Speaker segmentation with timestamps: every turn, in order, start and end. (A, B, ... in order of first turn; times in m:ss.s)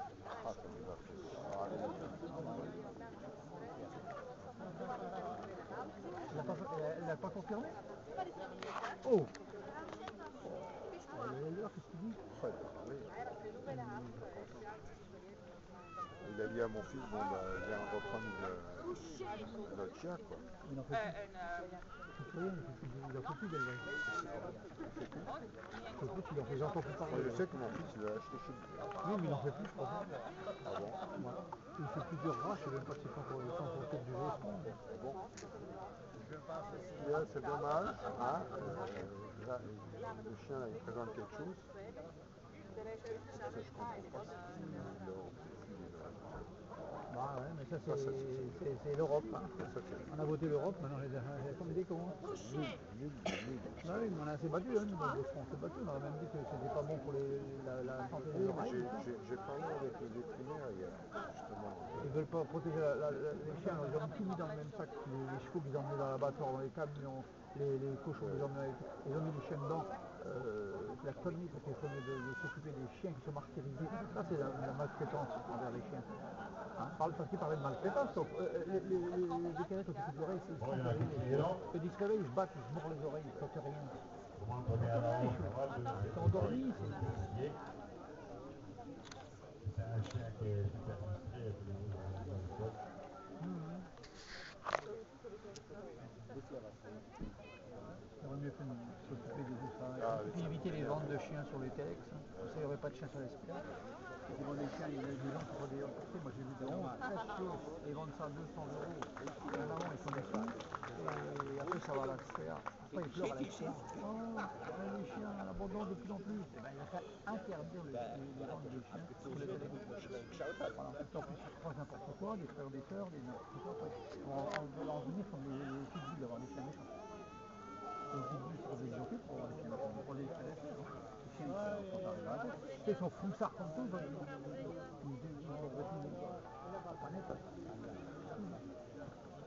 0:00.3-0:02.5 A
0:02.2-0:02.8 B
0:06.3-0:07.8 B
0:06.3-0:06.6 A
0:09.0-0:09.3 B
0:10.4-0:12.2 B
0:12.3-0:13.1 A
0:13.7-0:14.3 B
0:16.2-0:20.4 A
0:20.6-0:21.2 B
0:22.1-0:23.9 B
0:24.1-0:25.3 A
0:26.0-0:27.6 B
0:27.1-0:28.9 A
0:29.0-0:30.1 B
0:30.6-0:31.0 A
0:31.2-0:34.8 B
0:34.9-0:35.3 A
0:36.9-0:41.7 A
0:43.3-0:46.5 A
0:47.1-0:52.2 B
0:47.9-0:48.6 A
0:49.6-0:50.1 A
0:52.3-0:54.2 A
0:53.8-0:59.1 B
0:58.3-1:02.2 A
1:02.0-1:16.1 B
1:08.2-1:08.5 A
1:16.8-1:24.0 B
1:20.6-1:21.7 C
1:24.4-1:27.6 C
1:24.8-1:27.1 B
1:29.6-1:32.8 C
1:33.4-1:33.9 B
1:38.2-1:43.7 B
1:40.0-1:41.2 A
1:42.3-1:42.6 A
1:44.3-2:00.1 B
2:00.7-2:06.9 B
2:08.1-2:14.4 B
2:15.0-2:16.4 B
2:16.9-2:17.4 B
2:18.4-2:18.6 B